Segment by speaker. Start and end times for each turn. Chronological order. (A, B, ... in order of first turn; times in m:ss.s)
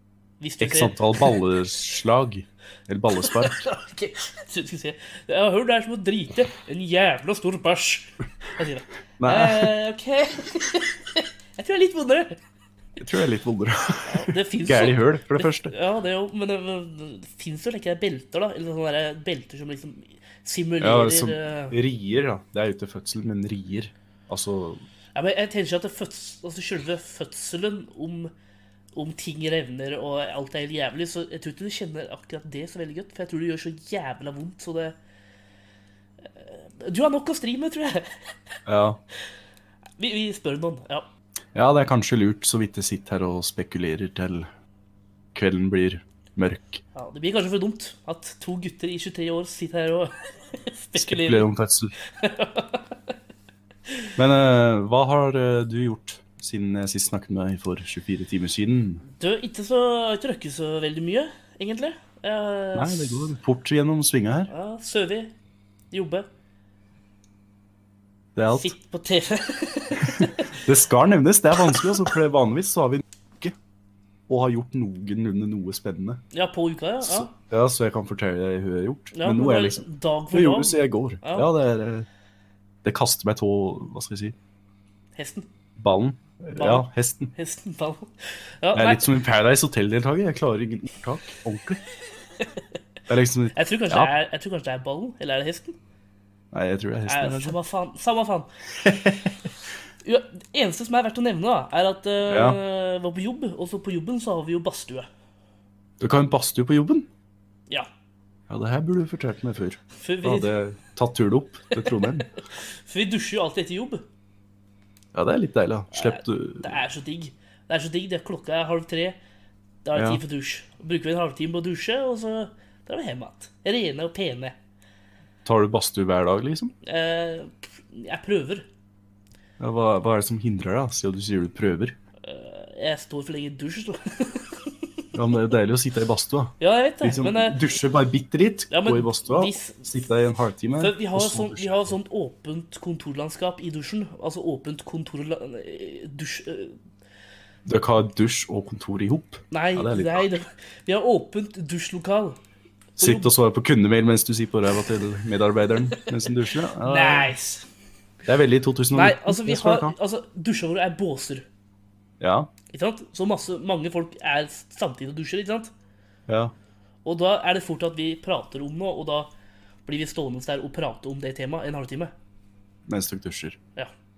0:00.4-0:01.4 A
0:00.6-0:03.6 B
0:03.1-0:12.4 A
0:09.2-0:09.7 B
0:13.0-0:15.7 B
0:14.0-0:21.8 A
0:20.8-0:24.8 B
0:25.1-0:28.3 A
0:28.9-0:35.0 A
0:36.2-0:38.2 A
0:38.6-0:39.0 B
0:40.0-0:41.0 A
0:41.5-0:44.5 B
0:45.3-0:46.8 B
0:46.9-0:51.4 A
0:51.0-0:51.9 B
0:52.1-0:53.1 A
0:54.2-0:59.0 B
0:59.2-1:03.3 A
1:02.8-1:04.5 B
1:04.5-1:05.3 A
1:05.9-1:06.3 A
1:08.4-1:08.7 B
1:08.5-1:10.5 A
1:10.0-1:13.5 B
1:11.7-1:12.0 A
1:14.3-1:16.2 B
1:16.3-1:17.3 A
1:17.0-1:22.1 B
1:19.1-1:21.5 A
1:22.8-1:24.4 B
1:25.1-1:25.4 A
1:25.8-1:27.3 B
1:26.5-1:29.1 A
1:28.7-1:31.8 B
1:33.1-1:34.1 B
1:33.5-1:35.8 A
1:36.5-1:37.6 B
1:37.0-1:39.2 A
1:38.8-1:39.1 B
1:40.0-1:45.1 A
1:42.3-1:42.6 B
1:46.0-1:47.1 B
1:48.5-1:52.3 B
1:50.0-1:50.5 A
1:51.8-1:54.0 A
1:55.1-1:56.8 B
1:55.9-1:59.2 A
1:59.8-2:04.6 A
1:59.9-2:00.2 B
2:05.4-2:06.7 B
2:06.8-2:08.6 A
2:09.6-2:12.0 B
2:12.2-2:15.1 A
2:15.1-2:22.0 B
2:16.6-2:17.6 A
2:18.7-2:19.9 A
2:20.8-2:26.8 A
2:27.6-2:30.3 B
2:29.5-2:32.4 A
2:33.0-2:33.3 A
2:33.0-2:37.3 B
2:36.8-2:37.6 A
2:38.2-2:39.9 B
2:38.9-2:41.4 A
2:42.2-2:42.5 B
2:42.7-2:45.7 A
2:46.3-2:46.5 B
2:47.0-2:49.3 A
2:49.8-2:52.1 A
2:52.8-2:53.6 B